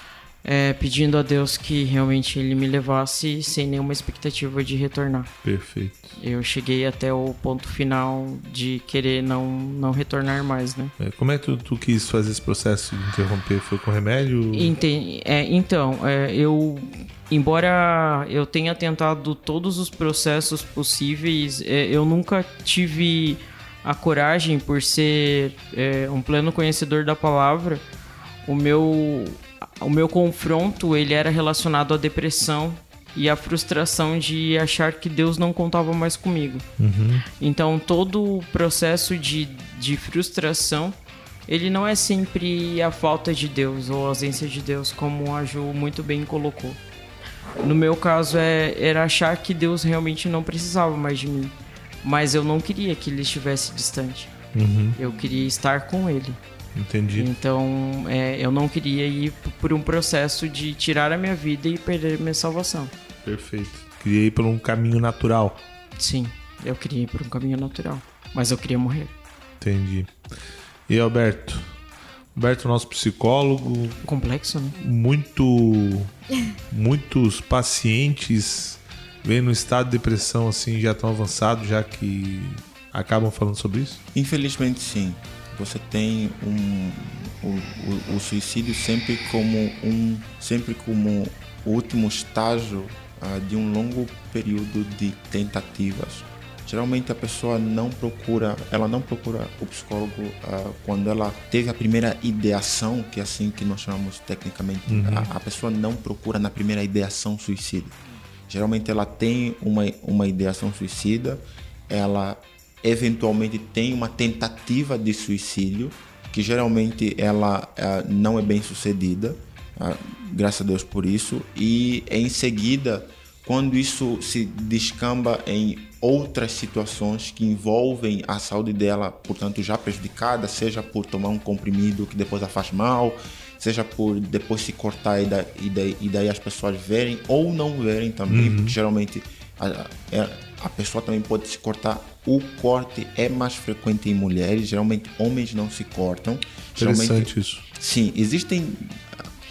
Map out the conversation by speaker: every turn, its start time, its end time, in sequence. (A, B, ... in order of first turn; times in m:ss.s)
0:00.4-0:05.3 A
0:05.4-0:06.1 B
0:06.2-0:10.9 A
0:11.0-0:14.7 B
0:14.5-0:27.8 A
0:28.5-0:36.7 A
0:36.8-0:37.2 B
0:37.4-0:46.8 A
0:47.6-0:54.3 A
0:54.5-0:55.0 B
0:55.0-0:56.4 A
0:56.8-0:57.3 B
0:57.2-1:02.9 A
1:03.2-1:05.6 B
1:06.0-1:09.1 A
1:09.6-1:10.1 B
1:10.9-1:11.7 B
1:12.4-1:14.0 B
1:14.0-1:14.8 A
1:14.8-1:16.1 B
1:16.7-1:24.0 B
1:24.1-1:48.0 C
1:44.9-1:45.3 B
1:48.5-2:29.2 C
2:18.3-2:18.8 B
2:26.8-2:27.6 B